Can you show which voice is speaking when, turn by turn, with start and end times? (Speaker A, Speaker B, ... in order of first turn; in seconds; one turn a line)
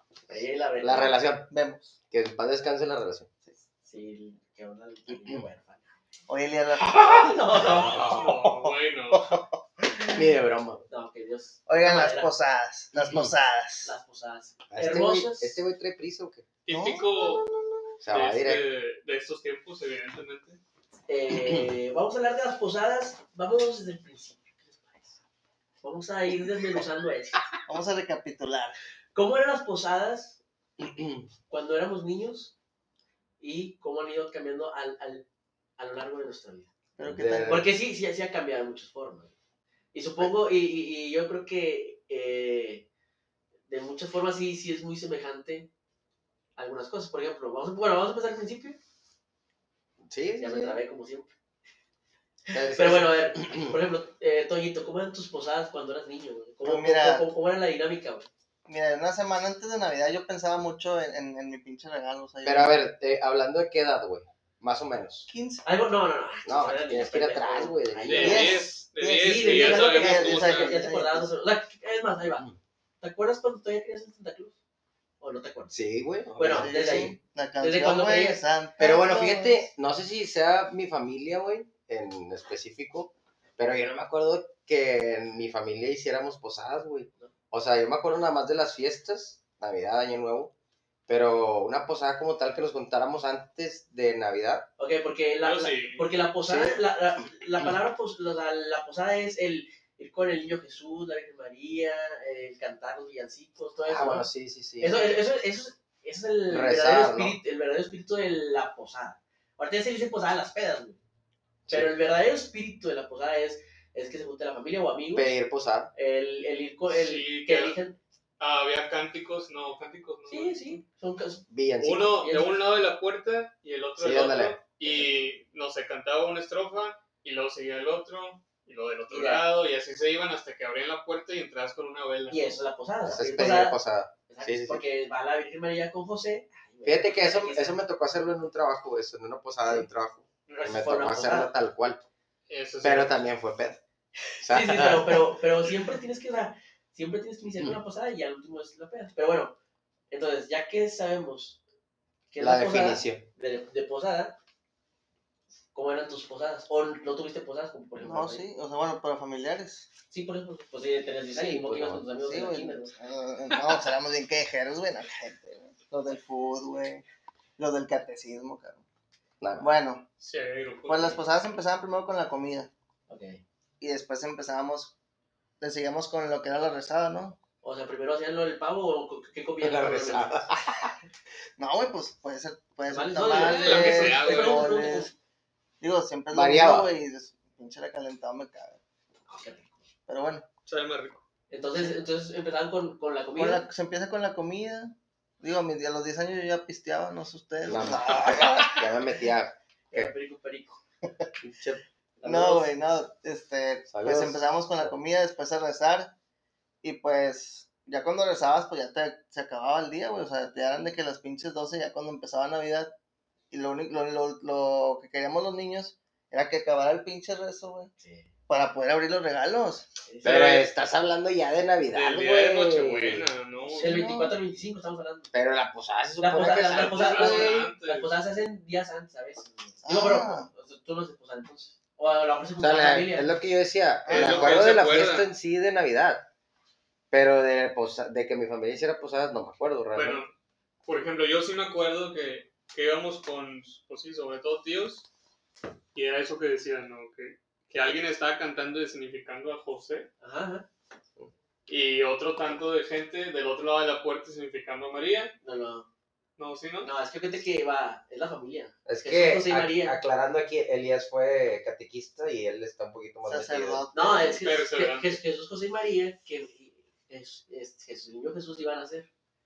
Speaker A: 0.3-1.2
Speaker B: 0.8-1.5
Speaker C: 1.5-1.9
Speaker B: 2.1-3.3
Speaker A: 3.8-6.0
Speaker C: 6.3-7.0
Speaker A: 6.8-8.2
Speaker B: 7.5-8.3
Speaker D: 7.8-9.4
Speaker C: 8.1-9.6
Speaker B: 9.8-10.9
Speaker A: 10.9-12.3
Speaker C: 11.7-13.9
Speaker B: 12.9-13.3
Speaker A: 13.8-15.6
Speaker B: 14.7-16.4
Speaker D: 16.6-17.4
Speaker C: 16.7-18.0
Speaker B: 18.0-18.6
Speaker D: 18.1-20.6
Speaker A: 21.1-25.2
Speaker B: 21.3-21.7
Speaker A: 25.8-27.4
Speaker C: 27.7-28.8
Speaker A: 29.1-30.4
Speaker B: 30.8-31.3
Speaker A: 31.5-32.5
Speaker A: 33.4-35.2
Speaker A: 35.8-36.7
Speaker C: 37.0-37.7
Speaker B: 37.0-37.6
Speaker A: 37.5-39.3
Speaker A: 39.9-42.8
Speaker A: 43.7-45.7
Speaker A: 46.5-48.8
Speaker B: 50.0-50.8
Speaker A: 50.4-51.3
Speaker A: 52.5-58.3
Speaker B: 52.5-53.8
Speaker C: 56.6-57.3
Speaker C: 58.6-62.8
Speaker B: 62.4-65.3
Speaker C: 65.3-65.6
Speaker A: 65.6-68.6
Speaker B: 66.5-68.5
Speaker D: 68.0-70.8
Speaker C: 68.2-71.3
Speaker A: 69.2-72.4
Speaker A: 73.0-74.5
Speaker A: 75.2-75.7
Speaker B: 75.7-77.1
Speaker A: 76.4-78.4
Speaker C: 76.5-79.6
Speaker B: 78.8-90.5
Speaker B: 91.1-94.7
Speaker A: 94.8-104.3
Speaker D: 95.4-96.1
Speaker B: 96.5-96.8
Speaker B: 103.9-105.2
Speaker A: 104.8-111.0
Speaker B: 106.5-107.4
Speaker A: 111.7-115.4
Speaker B: 115.1-115.9
Speaker A: 115.9-118.0
Speaker D: 116.9-117.8
Speaker D: 118.4-120.8
Speaker A: 120.3-121.4
Speaker B: 121.5-122.2
Speaker D: 121.8-132.6
Speaker A: 122.2-122.5
Speaker B: 124.0-124.6
Speaker A: 124.8-125.1
Speaker A: 129.1-129.5
Speaker A: 132.3-137.8
Speaker B: 133.1-134.8
Speaker B: 136.8-142.0
Speaker A: 140.5-141.5
Speaker D: 142.5-143.3
Speaker B: 142.8-143.8
Speaker A: 144.3-149.5
Speaker B: 144.4-145.3
Speaker A: 150.1-151.6
Speaker A: 152.3-154.4
Speaker B: 152.4-153.2
Speaker A: 155.7-158.5
Speaker C: 158.0-159.9
Speaker A: 160.1-162.9
Speaker B: 161.3-162.1
Speaker C: 162.2-167.0
Speaker C: 167.6-168.8
Speaker B: 169.4-169.7
Speaker C: 169.6-170.1
Speaker D: 170.2-171.2
Speaker C: 170.9-172.7
Speaker A: 173.1-173.4
Speaker C: 173.8-174.9
Speaker C: 175.6-177.4
Speaker A: 177.6-180.4
Speaker B: 179.6-180.9
Speaker C: 181.6-185.1
Speaker A: 182.9-185.1
Speaker D: 183.3-184.8
Speaker C: 185.8-188.8
Speaker B: 186.3-186.9
Speaker A: 189.3-189.8
Speaker C: 190.1-190.4
Speaker D: 190.7-191.2
Speaker A: 191.5-193.7
Speaker C: 193.3-198.8
Speaker B: 197.6-200.1
Speaker A: 199.9-200.8
Speaker B: 201.4-201.8
Speaker A: 202.2-202.7
Speaker C: 202.2-206.1
Speaker B: 203.9-204.9
Speaker C: 206.8-212.9
Speaker C: 213.5-217.9
Speaker A: 218.0-218.3
Speaker C: 218.5-219.9
Speaker A: 220.1-220.5
Speaker B: 220.2-223.3
Speaker D: 220.2-220.7
Speaker D: 221.9-224.0
Speaker C: 223.7-224.4
Speaker A: 223.8-225.3
Speaker B: 225.3-227.5
Speaker A: 226.2-233.3
Speaker D: 226.6-228.1
Speaker C: 227.1-227.6
Speaker C: 229.8-230.5
Speaker B: 232.6-236.2
Speaker C: 234.1-234.6
Speaker D: 234.1-235.3
Speaker B: 237.1-240.2
Speaker D: 239.9-240.3
Speaker D: 240.8-245.1
Speaker D: 245.9-250.1
Speaker A: 250.2-250.7
Speaker D: 251.7-255.3
Speaker A: 255.4-255.9
Speaker D: 256.4-256.9
Speaker A: 256.8-260.0
Speaker B: 258.9-263.8
Speaker C: 263.2-264.4
Speaker A: 263.9-269.1
Speaker D: 264.4-265.2